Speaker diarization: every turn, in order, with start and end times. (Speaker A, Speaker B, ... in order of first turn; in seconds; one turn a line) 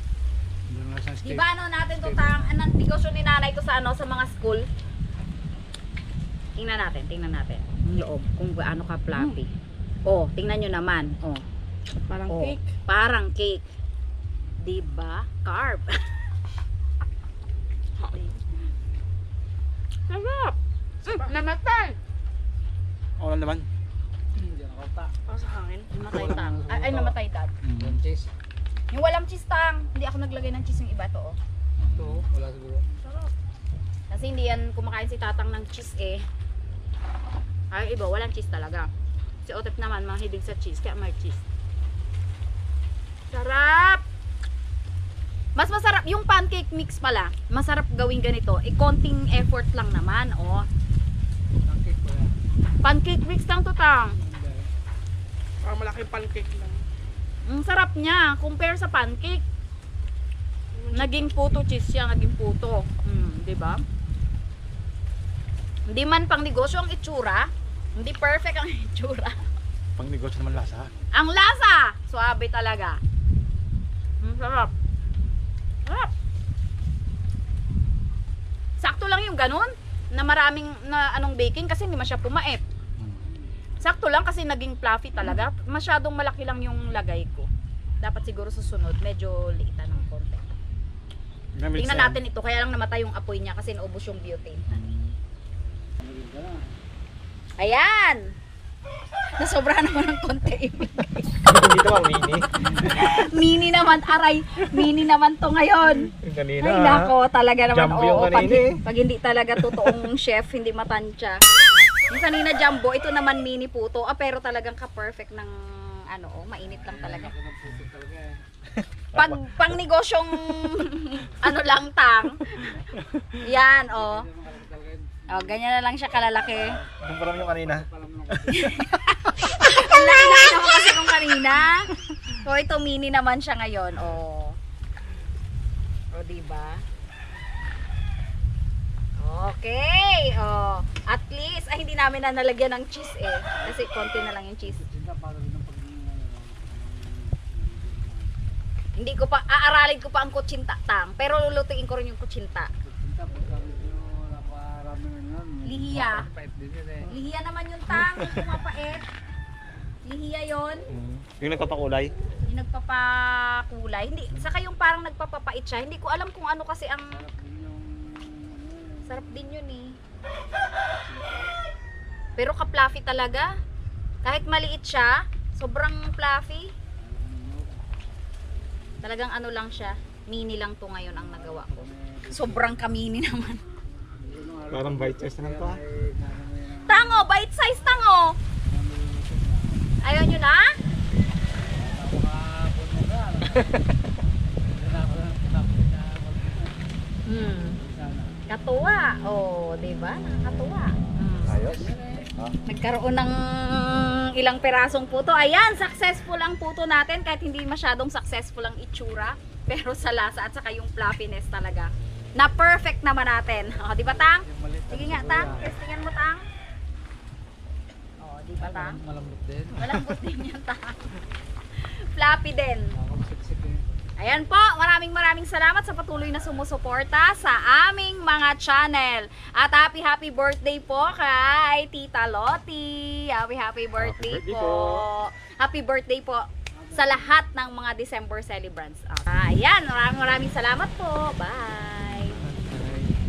Speaker A: 0.7-1.4
Speaker B: 1.2-4.7
Speaker A: 2.0-2.4
Speaker B: 6.5-9.5
Speaker B: 10.1-11.4
Speaker C: 12.1-12.7
Speaker B: 12.8-13.6
Speaker B: 14.6-15.9
Speaker C: 18.0-18.4
Speaker B: 20.1-21.9
Speaker C: 21.1-21.6
Speaker D: 23.2-23.7
Speaker A: 24.4-25.1
Speaker C: 25.3-25.9
Speaker B: 25.9-27.5
Speaker A: 26.1-27.1
Speaker D: 27.6-28.0
Speaker A: 27.8-28.3
Speaker B: 28.9-31.4
Speaker D: 31.8-32.2
Speaker A: 31.8-32.9
Speaker B: 34.1-36.2
Speaker B: 37.7-38.9
Speaker B: 39.4-41.4
Speaker B: 43.3-44.0
Speaker B: 45.5-50.7
Speaker A: 51.6-52.4
Speaker B: 52.8-54.1
Speaker A: 54.1-54.7
Speaker C: 55.6-56.8
Speaker B: 57.5-59.4
Speaker C: 60.8-61.6
Speaker B: 60.9-63.8
Speaker B: 65.9-69.4
Speaker D: 70.0-70.9
Speaker B: 71.1-73.0
Speaker B: 74.2-74.7
Speaker B: 75.8-76.1
Speaker B: 78.8-82.6
Speaker B: 83.8-87.5
Speaker B: 88.0-90.5
Speaker D: 91.5-92.2
Speaker B: 91.8-94.7
Speaker A: 96.0-96.7
Speaker B: 97.6-98.3
Speaker B: 99.4-101.2
Speaker D: 101.5-103.1
Speaker B: 102.8-111.4
Speaker D: 106.1-107.2
Speaker D: 107.7-108.8
Speaker D: 109.7-110.0
Speaker B: 112.1-117.3
Speaker A: 116.7-118.4
Speaker D: 118.8-119.4
Speaker B: 119.1-122.8
Speaker B: 123.4-124.3
Speaker A: 124.0-125.4
Speaker B: 125.3-126.8
Speaker A: 126.5-128.8
Speaker D: 127.0-128.8
Speaker B: 128.5-134.6
Speaker B: 136.1-136.8
Speaker B: 139.2-144.8
Speaker A: 144.7-148.3
Speaker B: 149.0-152.7
Speaker A: 152.8-157.1
Speaker B: 155.6-156.3
Speaker B: 157.1-159.1
Speaker D: 158.0-158.4
Speaker B: 160.0-160.9
Speaker D: 160.9-162.1
Speaker B: 162.4-167.2
Speaker A: 167.1-169.0
Speaker B: 169.1-170.0
Speaker A: 171.0-171.5
Speaker B: 172.4-173.5
Speaker B: 174.2-176.7
Speaker A: 177.0-177.8
Speaker B: 179.0-183.6
Speaker A: 181.5-182.8
Speaker A: 184.2-187.3
Speaker D: 184.7-185.8
Speaker B: 186.8-188.4
Speaker A: 188.7-189.8
Speaker B: 190.0-190.7
Speaker A: 191.7-193.7
Speaker A: 194.7-196.7
Speaker B: 197.2-197.8
Speaker A: 197.8-198.4
Speaker B: 198.5-201.7
Speaker D: 201.4-202.5
Speaker A: 201.5-202.3
Speaker B: 202.7-216.4
Speaker A: 214.4-215.7
Speaker B: 218.2-219.0
Speaker A: 218.6-219.8
Speaker B: 219.7-221.1
Speaker B: 221.8-222.9
Speaker A: 222.9-223.8
Speaker B: 224.2-242.4
Speaker D: 234.0-235.1
Speaker D: 242.2-243.1